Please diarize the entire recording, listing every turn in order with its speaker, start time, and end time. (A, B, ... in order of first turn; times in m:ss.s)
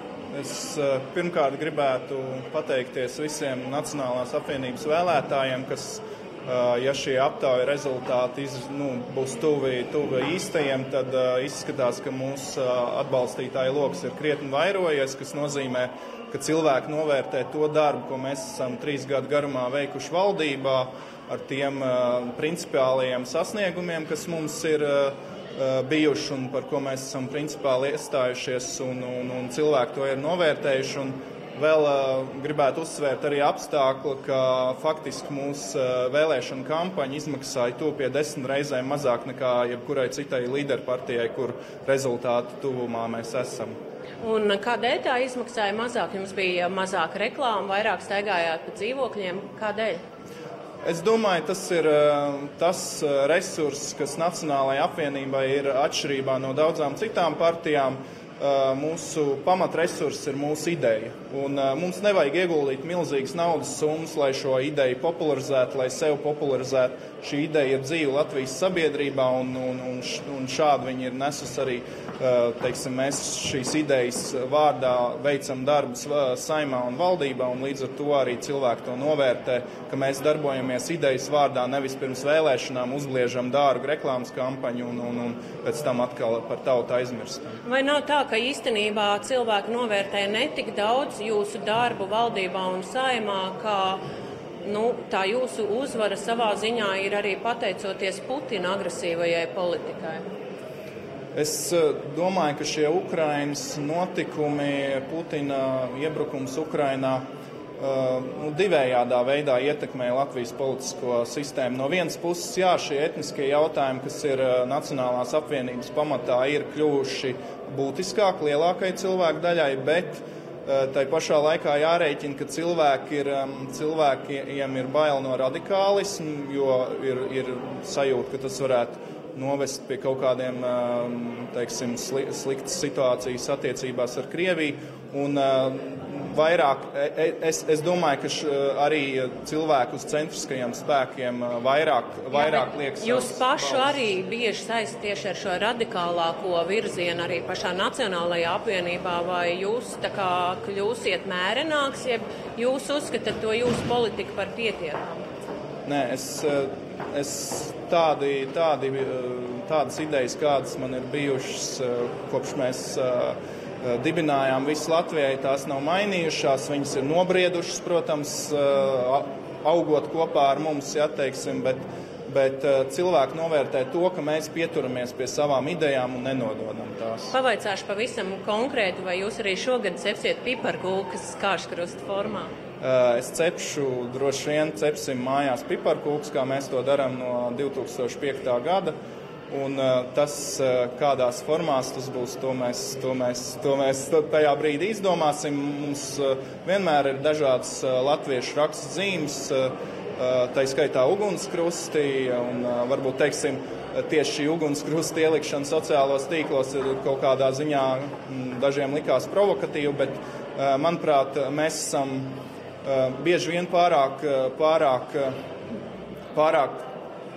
0:00.3-0:43.7 A
0:44.2-0:50.0 B
0:50.8-1:27.6 A
1:27.6-1:34.0 B
1:34.6-1:40.2 B
1:41.3-1:47.2 A
1:47.8-2:24.0 A
2:22.3-2:35.2 B
2:35.8-2:57.3 A
2:57.3-3:02.5 B
3:02.8-3:08.9 A
3:09.5-3:35.3 A
3:36.3-3:36.8 A